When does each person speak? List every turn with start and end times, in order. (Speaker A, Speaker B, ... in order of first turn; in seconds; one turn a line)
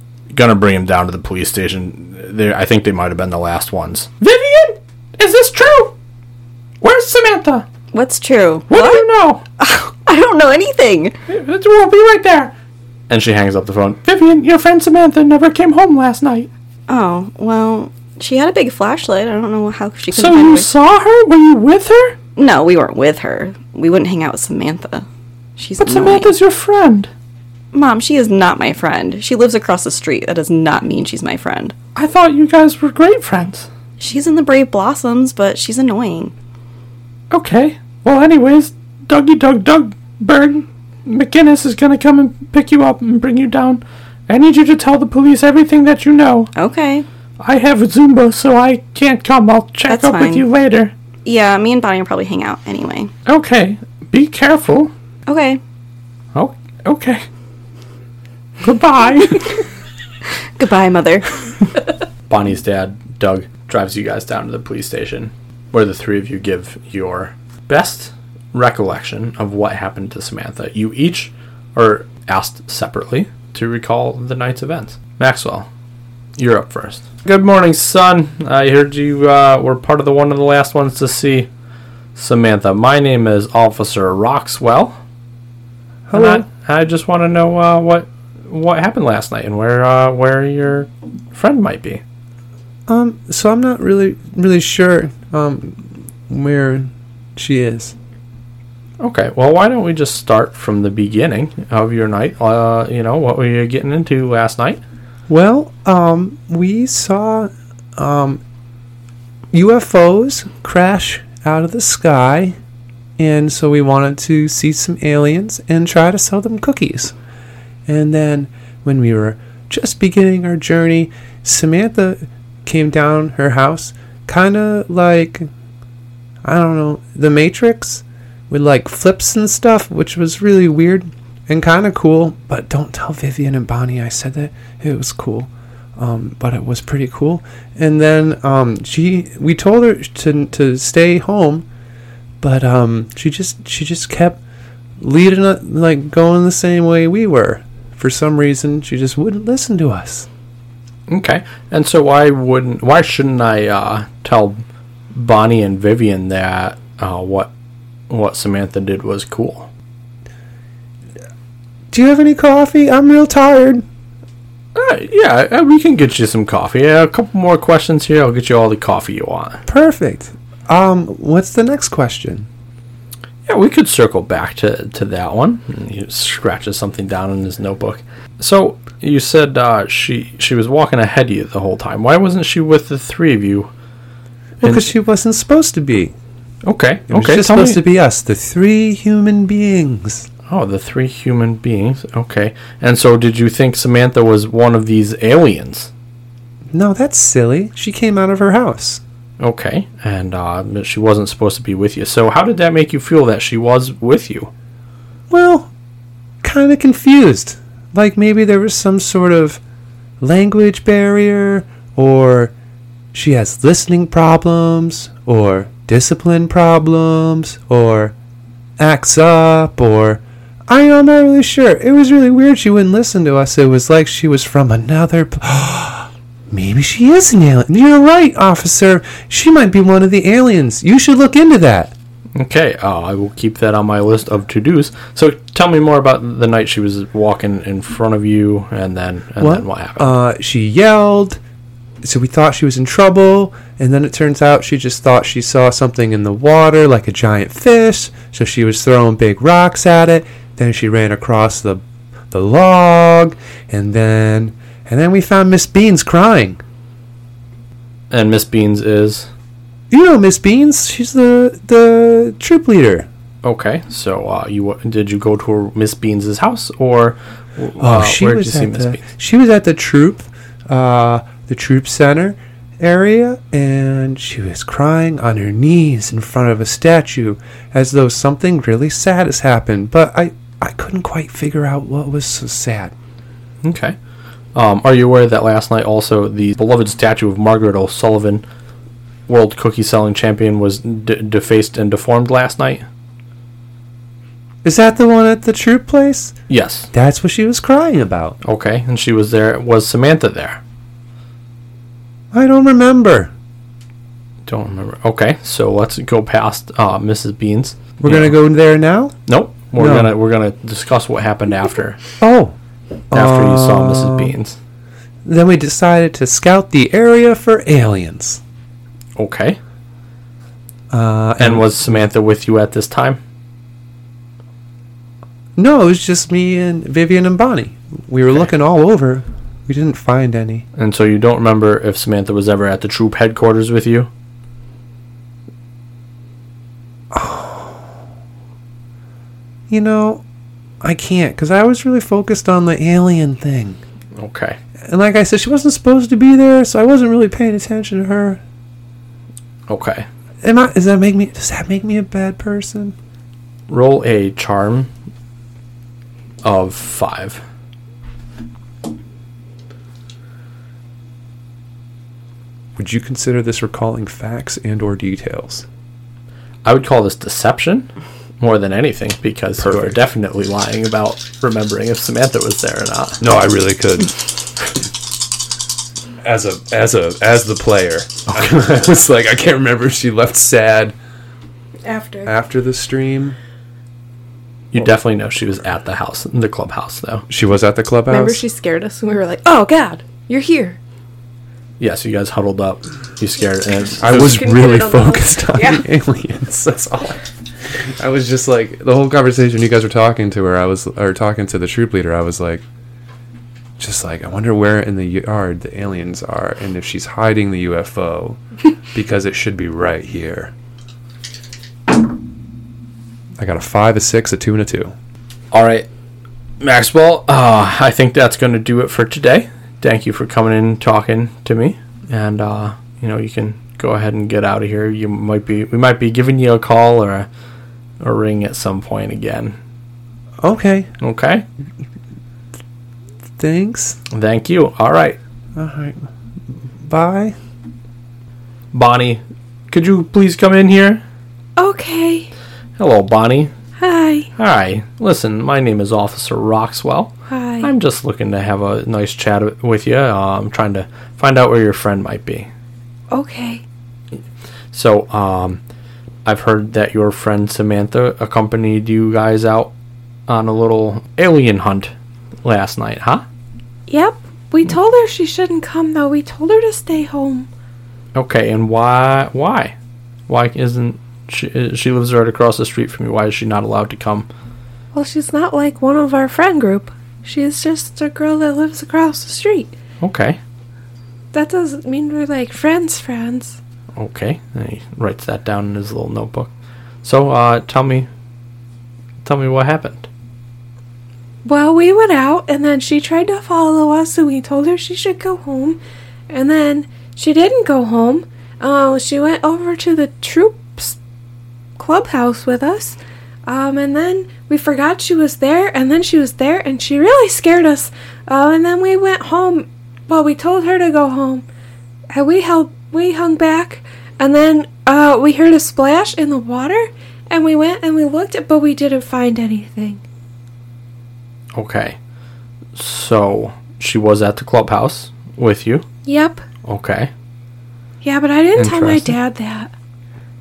Speaker A: 0.3-5.9
Speaker A: 6.8-7.7
Speaker B: 7.9-9.1
Speaker A: 8.7-9.4
Speaker B: 9.6-11.2
Speaker A: 11.3-12.5
Speaker A: 13.1-16.5
Speaker B: 16.9-20.7
Speaker A: 20.1-22.2
Speaker B: 22.4-25.1
Speaker B: 25.6-26.3
Speaker A: 25.8-27.1
Speaker B: 27.7-31.8
Speaker A: 31.9-33.7
Speaker B: 34.0-36.3
Speaker A: 37.3-46.5
Speaker B: 46.5-47.1
Speaker A: 47.4-50.9
Speaker B: 49.9-50.5
Speaker B: 51.2-53.1
Speaker A: 53.3-54.9
Speaker B: 55.3-55.6
Speaker A: 56.4-57.2
Speaker A: 58.6-59.6
Speaker B: 60.6-61.4
Speaker A: 62.3-75.7
Speaker A: 76.4-81.5
Speaker A: 82.2-85.0
Speaker C: 86.1-86.5
Speaker A: 86.1-92.0
Speaker C: 92.9-97.9
Speaker A: 99.0-104.8
Speaker C: 105.3-108.4
Speaker C: 109.5-112.5
Speaker C: 113.2-117.1
Speaker C: 117.9-125.5
Speaker C: 126.4-141.7
Speaker C: 142.4-144.4
Speaker C: 145.0-150.3
Speaker A: 151.1-154.6
Speaker A: 155.1-157.5
Speaker A: 158.1-159.7
Speaker C: 161.9-163.8
Speaker A: 164.8-169.6
Speaker C: 169.7-172.5
Speaker A: 173.5-183.7
Speaker A: 184.6-184.9
Speaker C: 184.6-186.1
Speaker A: 186.6-187.8
Speaker C: 187.1-190.3
Speaker A: 190.5-195.9
Speaker C: 196.7-199.0
Speaker A: 199.4-204.5
Speaker C: 205.3-205.7
Speaker C: 206.4-209.6
Speaker C: 210.2-212.5
Speaker C: 213.1-218.1
Speaker C: 218.8-231.9
Speaker A: 232.4-240.1
Speaker C: 239.4-241.4
Speaker C: 242.0-256.6
Speaker A: 258.1-259.3
Speaker C: 259.9-263.1
Speaker A: 263.4-269.0
Speaker C: 267.8-282.9
Speaker A: 283.6-284.0
Speaker A: 284.6-288.4
Speaker A: 289.3-292.8
Speaker C: 294.6-296.4
Speaker A: 296.5-296.9
Speaker C: 296.9-298.4
Speaker A: 298.4-300.6
Speaker C: 302.3-303.3
Speaker A: 304.5-308.3
Speaker C: 308.0-309.1
Speaker A: 309.3-312.0
Speaker C: 309.8-310.1
Speaker C: 312.2-312.6
Speaker C: 313.1-314.3
Speaker A: 313.1-314.6
Speaker C: 315.2-318.4
Speaker A: 319.2-319.6
Speaker C: 320.9-322.0
Speaker A: 321.4-323.2
Speaker C: 325.6-330.7
Speaker A: 330.8-334.1
Speaker C: 337.1-337.9
Speaker C: 339.7-340.2
Speaker C: 340.8-343.8
Speaker A: 344.2-344.6
Speaker C: 344.9-348.4
Speaker A: 349.7-350.1
Speaker C: 350.4-352.9
Speaker A: 353.7-354.9
Speaker A: 356.4-357.4
Speaker C: 362.8-365.6
Speaker A: 366.6-367.9
Speaker A: 368.4-373.2
Speaker C: 369.6-370.0
Speaker C: 373.2-374.3
Speaker C: 376.2-380.9
Speaker D: 381.9-382.3
Speaker C: 382.2-383.4
Speaker A: 384.7-387.3
Speaker C: 387.3-388.4
Speaker D: 388.1-390.8
Speaker A: 391.8-394.5
Speaker C: 394.0-397.2
Speaker D: 394.2-395.8
Speaker C: 397.9-402.6
Speaker C: 403.8-410.5
Speaker C: 413.4-414.9
Speaker A: 415.5-415.9
Speaker A: 416.6-427.3
Speaker A: 428.0-429.6
Speaker C: 430.4-430.9
Speaker A: 431.0-431.4
Speaker C: 433.4-434.0
Speaker A: 434.1-435.2
Speaker C: 435.6-436.1
Speaker C: 436.8-437.4
Speaker A: 438.7-441.0
Speaker D: 441.6-442.3
Speaker A: 442.8-443.5
Speaker D: 443.8-444.3
Speaker A: 444.4-452.5
Speaker D: 447.3-447.7
Speaker D: 453.1-453.6
Speaker A: 454.7-455.6
Speaker A: 456.2-459.7
Speaker A: 460.3-461.9
Speaker A: 462.4-463.2
Speaker D: 463.9-467.5
Speaker A: 468.1-469.8
Speaker A: 470.3-474.3
Speaker D: 474.9-479.8
Speaker A: 480.0-480.4
Speaker D: 481.3-483.6
Speaker A: 484.0-486.5
Speaker A: 487.0-488.1
Speaker A: 489.2-490.1
Speaker D: 491.4-501.0
Speaker D: 501.8-511.4
Speaker D: 512.1-520.0
Speaker A: 521.5-522.0
Speaker A: 522.8-525.9
Speaker D: 526.1-526.5
Speaker A: 526.6-527.1
Speaker D: 528.0-529.7
Speaker A: 528.6-529.1